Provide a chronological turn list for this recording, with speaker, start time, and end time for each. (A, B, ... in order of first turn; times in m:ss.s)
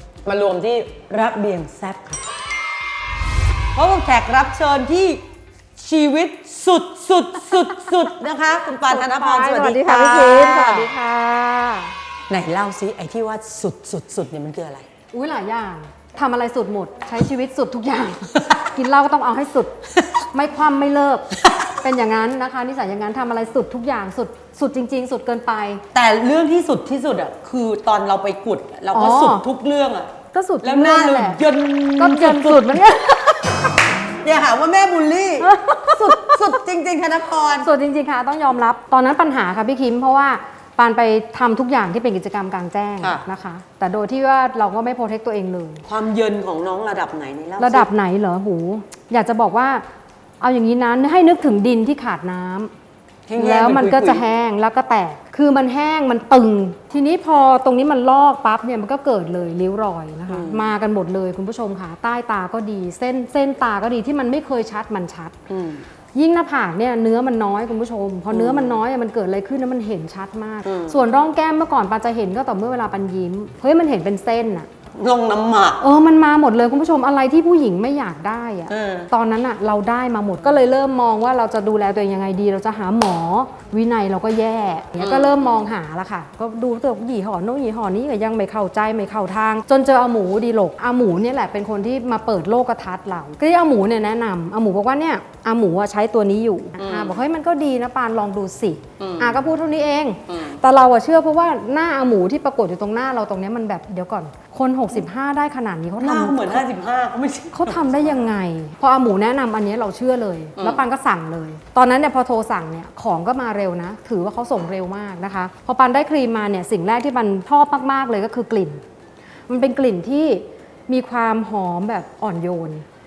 0:00.2-0:02.2 A
0:03.7-0:05.2 A
0:05.8-0:10.9 A
0:08.9-0:11.9 B
0:12.3-0:14.8 A
0:15.1-0:21.3 B
0:21.8-0:25.8 B
0:25.9-0:33.7 A
0:28.9-0:29.4 B
0:30.3-0:31.4 B
0:32.0-0:33.2 B
0:34.2-0:37.7 A
0:35.4-0:36.4 B
0:37.6-0:45.8 B
0:45.8-0:47.9 A
0:47.6-0:49.8 B
0:50.4-0:52.7 B
0:53.3-0:54.2 A
0:53.4-1:05.4 B
1:00.3-1:00.7 A
1:05.5-1:05.8 A
1:06.1-1:14.7 B
1:08.3-1:08.8 A
1:10.6-1:11.0 A
1:15.0-1:15.8 A
1:15.8-1:46.6 B
1:18.7-1:19.1 A
1:25.0-1:25.5 A
1:36.8-1:37.2 A
1:39.0-1:39.4 A
1:40.3-1:40.6 A
1:46.0-1:48.1 A
1:47.5-1:58.8 B
1:59.5-2:02.8 B